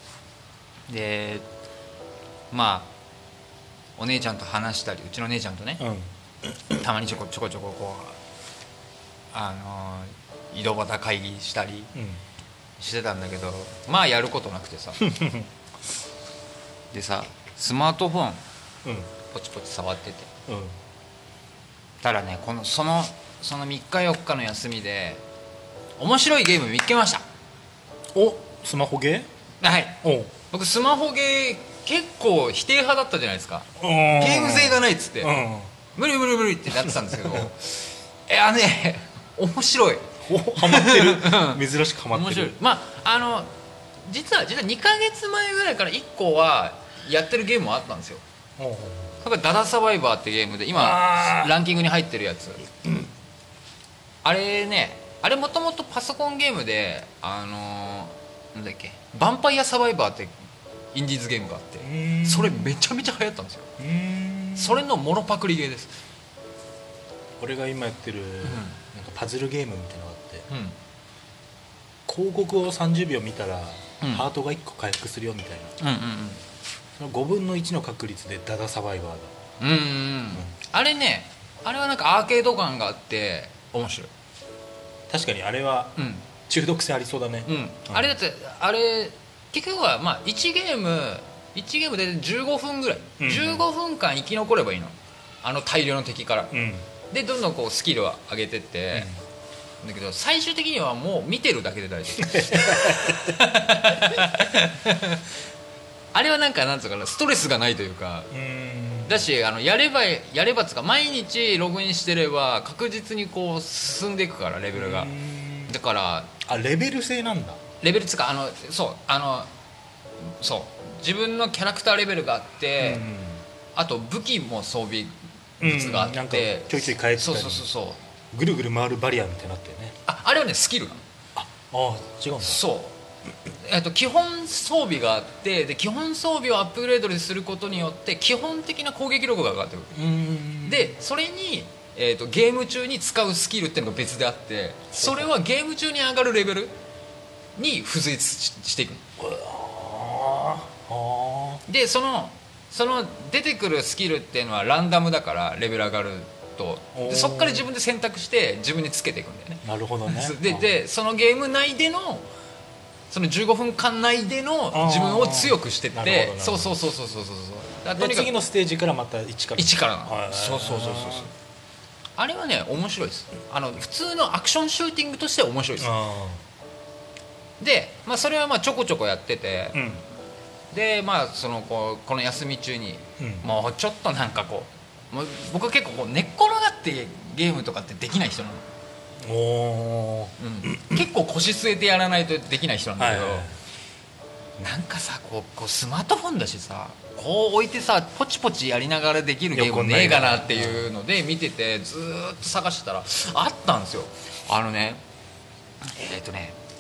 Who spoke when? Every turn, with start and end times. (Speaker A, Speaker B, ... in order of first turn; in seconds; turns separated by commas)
Speaker A: 0.9-1.5, Speaker A: 2.5-2.9, Speaker A: 4.0-5.8, Speaker B: 5.8-6.5, Speaker A: 6.7-8.2, Speaker A: 9.3-11.9, Speaker B: 11.9-12.2, Speaker A: 12.8-15.1, Speaker B: 15.0-15.5, Speaker A: 16.9-18.4, Speaker B: 18.8-19.1, Speaker A: 19.3-20.3, Speaker B: 20.5-20.8, Speaker A: 22.0-25.2, Speaker A: 26.0-27.2, Speaker B: 28.1-29.3, Speaker A: 29.6-35.4, Speaker B: 30.0-30.3, Speaker B: 33.8-35.7, Speaker A: 36.0-43.5, Speaker B: 36.9-37.5, Speaker B: 40.2-42.6, Speaker A: 44.0-48.2, Speaker B: 48.6-49.2, Speaker A: 49.2-52.6, Speaker B: 50.7-51.6, Speaker A: 54.2-60.3, Speaker A: 60.9-63.7, Speaker B: 61.8-62.7, Speaker B: 63.8-64.8, Speaker A: 64.6-66.0, Speaker B: 67.4-70.5, Speaker A: 68.4-68.8, Speaker A: 70.5-70.8, Speaker B: 72.1-75.8, Speaker A: 75.8-76.4, Speaker B: 77.0-79.3, Speaker A: 79.6-84.1, Speaker B: 85.1-88.2, Speaker A: 86.0-86.3, Speaker A: 87.5-96.5, Speaker B: 93.2-93.7, Speaker B: 96.5-96.9, Speaker A: 97.1-99.1, Speaker B: 98.9-99.2, Speaker A: 99.8-105.3, Speaker B: 102.2-103.4, Speaker A: 106.1-108.3, Speaker B: 108.3-109.3, Speaker A: 109.1-115.1, Speaker B: 114.7-115.7, Speaker A: 115.7-116.3, Speaker B: 116.4-117.6, Speaker A: 117.8-119.5, Speaker A: 120.2-123.0, Speaker B: 122.8-123.5, Speaker A: 123.8-128.0, Speaker B: 125.6-127.7, Speaker B: 128.3-130.0, Speaker A: 130.1-131.0, Speaker B: 131.4-132.6, Speaker A: 132.4-133.0, Speaker A: 133.5-140.0, Speaker B: 139.9-141.0, Speaker A: 140.6-146.8, Speaker B: 144.9-145.3, Speaker A: 147.6-149.1, Speaker B: 149.2-151.6, Speaker A: 151.7-162.3, Speaker B: 156.9-157.7, Speaker B: 159.6-160.7, Speaker A: 163.1-168.3, Speaker B: 164.7-166.8, Speaker B: 167.9-171.3, Speaker A: 169.6-171.3, Speaker A: 172.2-175.9, Speaker B: 175.8-176.4, Speaker A: 177.6-179.9, Speaker B: 179.7-180.0, Speaker A: 180.7-188.7, Speaker B: 183.2-183.5, Speaker B: 189.2-191.1, Speaker A: 190.4-193.5, Speaker B: 193.0-193.6, Speaker A: 194.6-205.0, Speaker B: 199.5-200.9, Speaker A: 205.8-206.6